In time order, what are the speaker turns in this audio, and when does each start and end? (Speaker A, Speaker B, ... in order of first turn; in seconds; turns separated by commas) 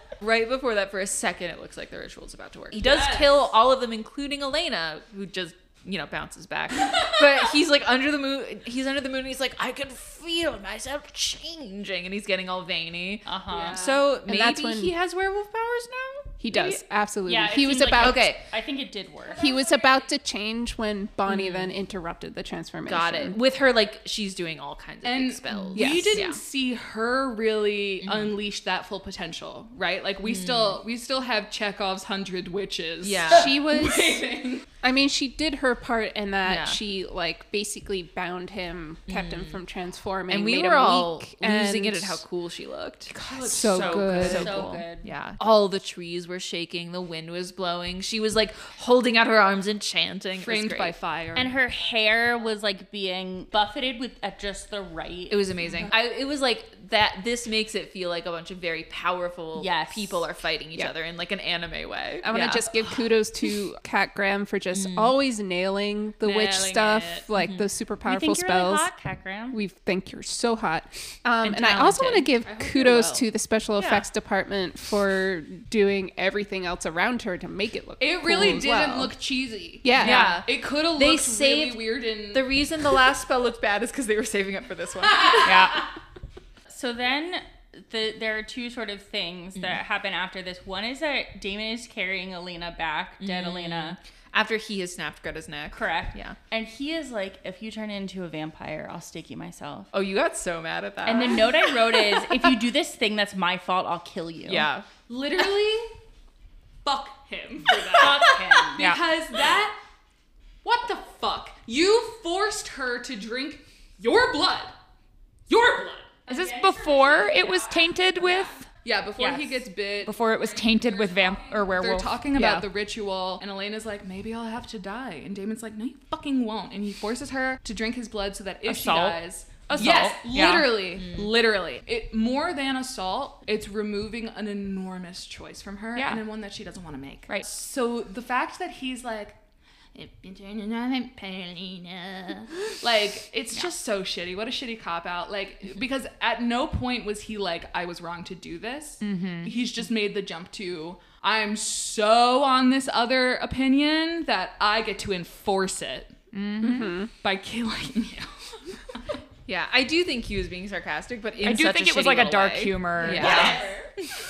Speaker A: 0.2-16.4, Speaker B: 2.8-3.3, Speaker B: 6.8-7.3, Speaker C: 13.2-14.1, Speaker D: 14.2-14.9, Speaker D: 16.4-18.3, Speaker C: 16.5-19.7, Speaker A: 18.0-18.4, Speaker D: 19.3-23.4, Speaker A: 21.3-21.7, Speaker A: 22.9-26.4, Speaker B: 25.0-34.6, Speaker D: 25.7-26.3, Speaker A: 28.0-28.3, Speaker A: 30.3-30.8, Speaker A: 33.0-33.6, Speaker D: 33.3-34.3, Speaker D: 34.8-42.2, Speaker A: 36.4-36.8, Speaker A: 39.1-39.6, Speaker A: 40.3-43.1, Speaker B: 43.1-44.6, Speaker D: 43.2-44.7, Speaker C: 44.1-45.1, Speaker E: 44.1-44.8, Speaker A: 44.9-51.0, Speaker B: 50.4-51.5, Speaker C: 51.3-55.4, Speaker A: 55.3-63.1, Speaker C: 59.5-60.2, Speaker D: 62.2-68.8, Speaker A: 66.2-67.3, Speaker C: 68.0-69.6, Speaker D: 69.5-79.1, Speaker A: 71.4-72.4, Speaker B: 72.4-73.3, Speaker A: 73.8-74.1, Speaker B: 78.0-82.7, Speaker D: 79.8-80.4, Speaker E: 80.0-80.4, Speaker A: 80.0-85.8, Speaker E: 85.4-85.8, Speaker C: 86.7-94.0, Speaker A: 93.2-96.4, Speaker C: 95.7-99.9, Speaker A: 99.9-102.3, Speaker C: 101.0-104.7, Speaker A: 104.4-104.9, Speaker B: 105.1-105.9, Speaker B: 106.8-109.8, Speaker C: 107.9-108.8, Speaker E: 108.8-109.0, Speaker B: 110.6-114.7, Speaker B: 115.5-116.2, Speaker C: 116.3-117.9, Speaker E: 116.3-118.7, Speaker B: 118.8-120.4, Speaker C: 119.2-119.6, Speaker E: 120.0-122.7, Speaker B: 121.3-139.4, Speaker E: 128.6-130.8, Speaker E: 135.9-136.2, Speaker B: 139.9-156.1, Speaker E: 149.0-149.5, Speaker E: 156.3-157.0, Speaker D: 156.6-157.1, Speaker B: 157.2-159.0, Speaker A: 159.4-163.7, Speaker E: 161.4-163.6, Speaker C: 163.1-163.7, Speaker B: 163.1-163.6, Speaker D: 163.2-163.5